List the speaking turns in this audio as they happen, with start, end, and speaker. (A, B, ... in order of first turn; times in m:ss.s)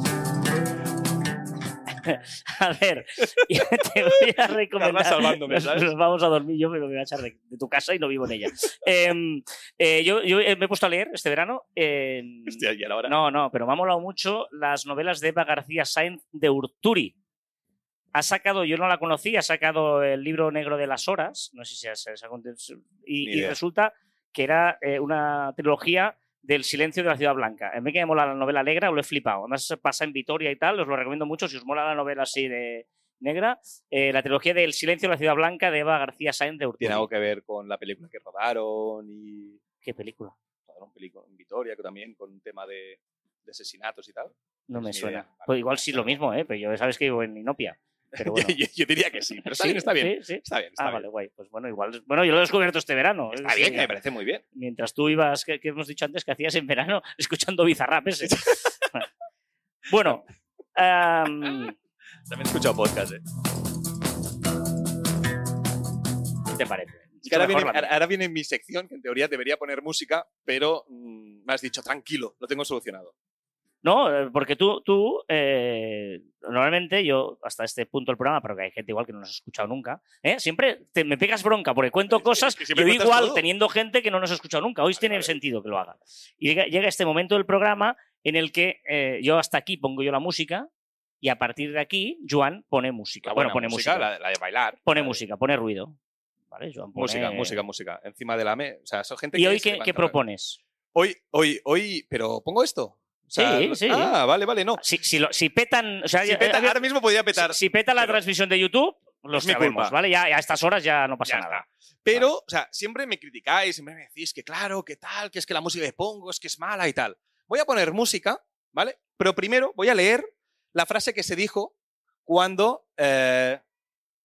0:01.9-0:17.1 A
0:04.8-0:05.9 B
0:12.5-0:13.1 B
0:18.1-0:37.1 A
0:23.2-0:23.6 B
0:36.8-0:39.6 B
0:39.8-0:40.4 A
0:40.7-0:46.0 B
0:44.7-0:48.6 A
0:48.2-0:51.0 B
0:49.5-0:53.9 A
0:53.3-0:54.4 B
0:54.6-0:59.1 A
0:58.3-0:58.6 B
0:59.9-1:00.2 A
1:00.8-1:01.8 A
1:02.3-1:03.2 B
1:06.6-1:07.9 A
1:07.3-1:13.1 B
1:13.8-1:30.7 A
1:22.1-1:23.4 B
1:25.0-1:25.3 B
1:31.2-1:34.1 A
1:33.3-1:35.2 B
1:34.9-1:36.0 A
1:36.5-1:37.6 A
1:37.0-1:40.2 B
1:39.4-1:40.6 A
1:41.0-1:44.8 B
1:43.4-1:44.1 A
1:44.8-1:46.8 A
1:46.2-1:48.2 B
1:47.3-1:52.3 A
1:49.4-1:50.0 B
1:51.3-2:01.7 B
2:02.3-2:03.6 B